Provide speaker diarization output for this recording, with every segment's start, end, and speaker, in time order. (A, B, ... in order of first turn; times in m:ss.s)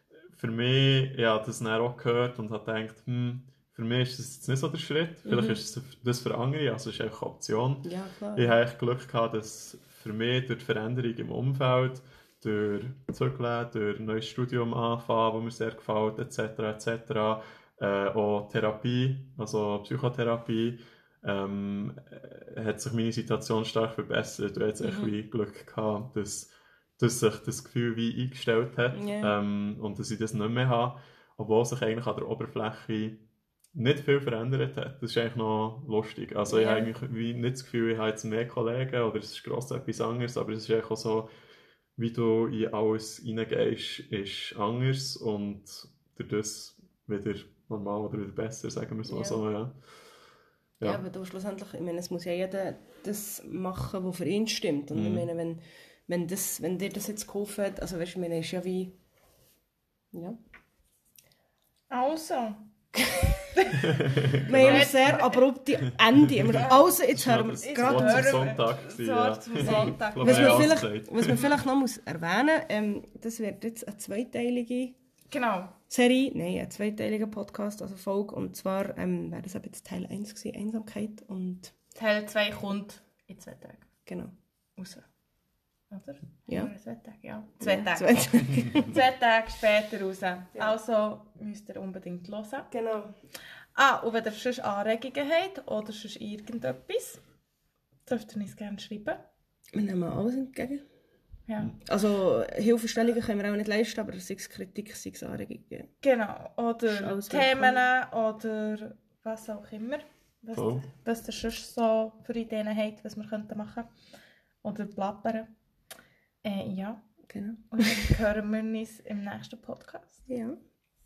0:00.3-0:33.2 A
0:05.2-0:05.6 B
0:07.8-0:08.5 B
0:24.8-0:25.1 B
0:28.9-0:29.4 B
0:33.7-0:41.3 A
0:36.5-0:36.9 B
0:42.0-0:49.8 A
0:49.0-0:49.4 B
0:50.8-0:58.9 B
0:54.9-0:55.3 A
1:00.1-1:00.4 B
1:01.9-1:04.0 C
1:03.8-1:05.0 A
1:04.4-1:08.6 B
1:04.5-1:05.4 C
1:05.9-1:11.5 A
1:07.8-1:10.8 C
1:09.6-1:15.0 B
1:15.3-1:15.8 C
1:15.9-1:21.7 B
1:21.9-1:23.9 C
1:24.0-1:24.3 B
1:24.8-1:25.0 C
1:25.9-1:32.7 C
1:27.6-1:29.0 B
1:32.7-1:33.1 B
1:33.7-1:37.2 C
1:38.0-1:39.2 C
1:39.7-1:40.8 B
1:41.5-1:41.7 C
1:41.8-1:45.9 B
1:46.0-1:53.9 C
1:46.9-1:47.8 B
1:50.5-1:50.8 A
1:54.6-1:55.5 C
1:56.4-1:57.0 C
1:57.3-1:58.1 B
1:57.7-2:00.2 C
2:00.3-2:00.6 B